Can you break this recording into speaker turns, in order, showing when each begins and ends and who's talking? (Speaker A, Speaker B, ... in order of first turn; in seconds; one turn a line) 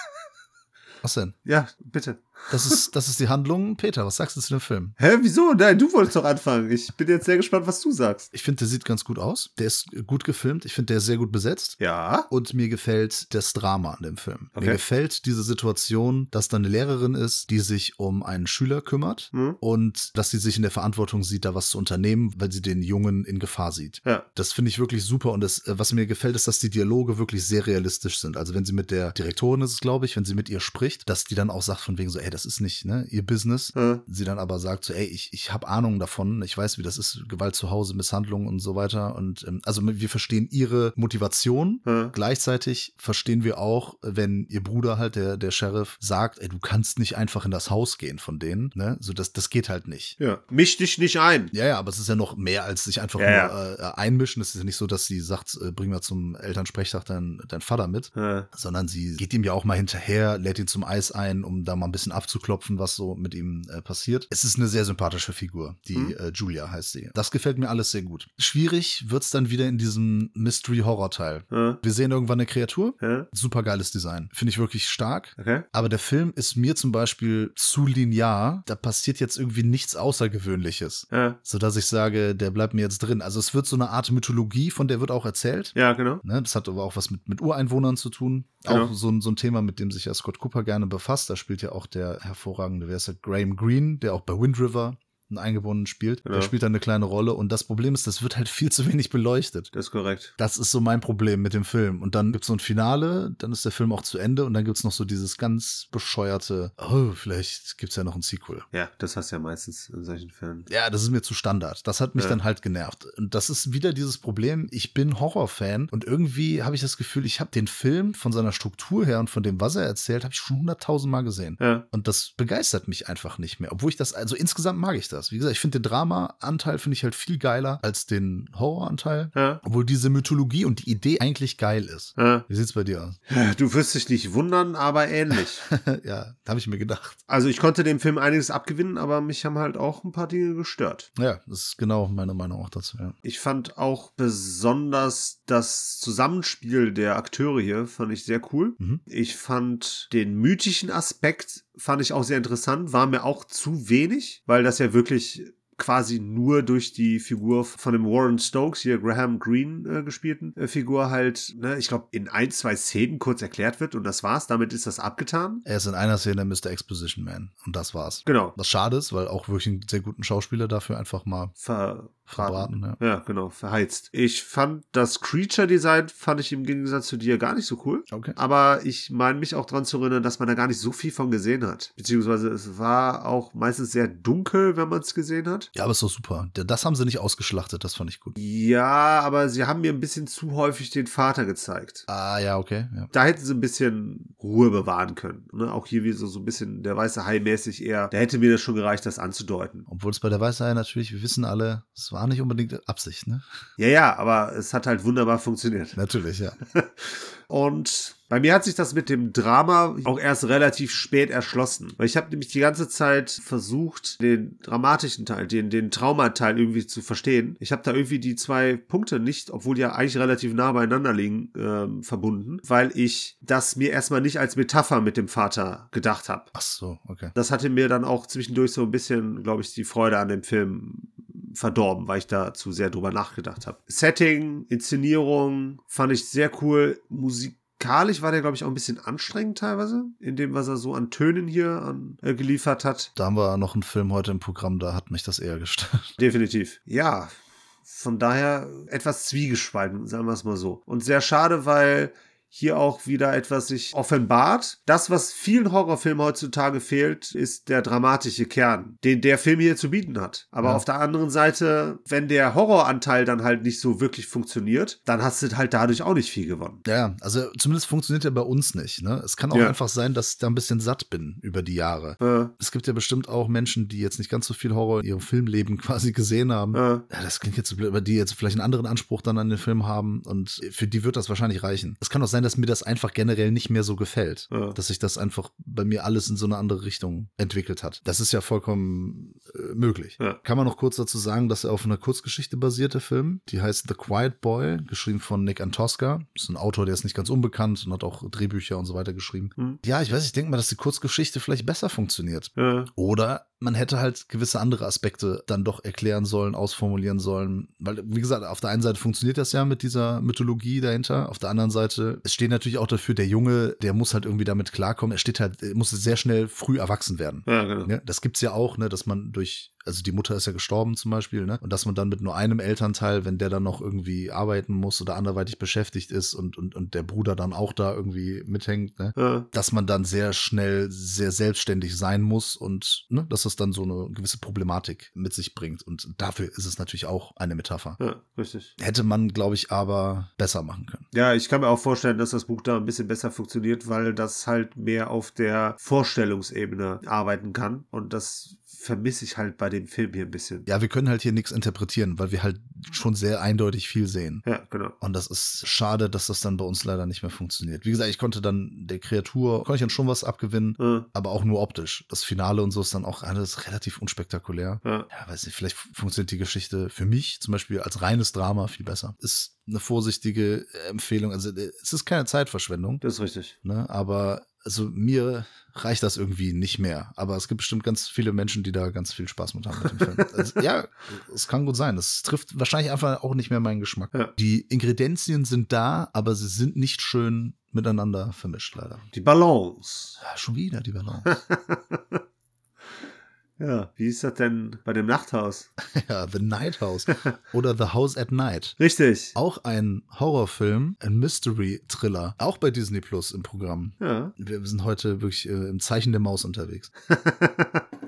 Speaker A: 1.0-1.4
Speaker B: 1.4-2.8
Speaker A: 2.5-5.0
Speaker B: 5.0-8.3
Speaker A: 8.3-11.8
Speaker B: 11.8-12.3
Speaker A: 12.3-50.2
Speaker B: 19.3-19.6
Speaker B: 33.8-34.0
Speaker B: 41.9-42.1
Speaker B: 50.2-51.5
Speaker A: 51.5-99.7
Speaker B: 53.2-53.5
Speaker B: 58.1-58.5
Speaker B: 71.5-71.8
Speaker B: 73.0-73.3
Speaker B: 75.4-75.7
Speaker B: 81.1-81.4
Speaker B: 85.8-86.2
Speaker B: 88.7-88.9
Speaker B: 96.2-96.5
Speaker B: 99.7-100.3
Speaker A: 100.4-108.7
Speaker B: 108.7-110.7
Speaker A: 110.7-133.2
Speaker B: 129.3-129.6
Speaker B: 132.2-132.5
Speaker B: 133.3-135.6
Speaker A: 135.7-137.2
Speaker B: 137.3-141.1
Speaker A: 141.2-143.2
Speaker B: 143.2-165.6
Speaker A: 165.7-171.5
Speaker B: 168.2-168.6
Speaker B: 171.6-185.7
Speaker A: 172.3-173.0
Speaker A: 178.1-178.4
Speaker A: 185.8-188.4
Speaker B: 188.4-192.1
Speaker A: 192.1-193.1
Speaker B: 193.1-199.8
Speaker A: 199.9-203.4
Speaker B: 203.8-206.0
Speaker A: 205.9-206.6
Speaker B: 206.7-226.5
Speaker A: 226.5-227.3
Speaker B: 227.3-243.1
Speaker A: 243.2-246.2
Speaker B: 246.2-247.3
Speaker B: 247.9-266.8
Speaker A: 266.9-338.0
Speaker B: 272.2-272.5
Speaker B: 276.7-277.0
Speaker B: 284.5-284.8
Speaker B: 302.6-302.9
Speaker B: 317.5-317.9
Speaker B: 329.2-329.5
Speaker B: 338.0-338.7
Speaker A: 338.8-341.1
Speaker B: 341.1-350.6
Speaker A: 350.7-354.4
Speaker B: 354.4-354.9
Speaker A: 355.0-373.0
Speaker B: 360.8-361.1
Speaker B: 373.0-373.5
Speaker A: 373.6-389.1
Speaker B: 379.9-380.3
Speaker B: 389.1-390.2
Speaker A: 390.2-391.3
Speaker B: 391.2-392.2
Speaker B: 393.6-395.7
Speaker A: 395.8-398.8
Speaker B: 398.8-399.4
Speaker A: 399.4-406.9
Speaker B: 404.0-404.3
Speaker B: 407.1-407.8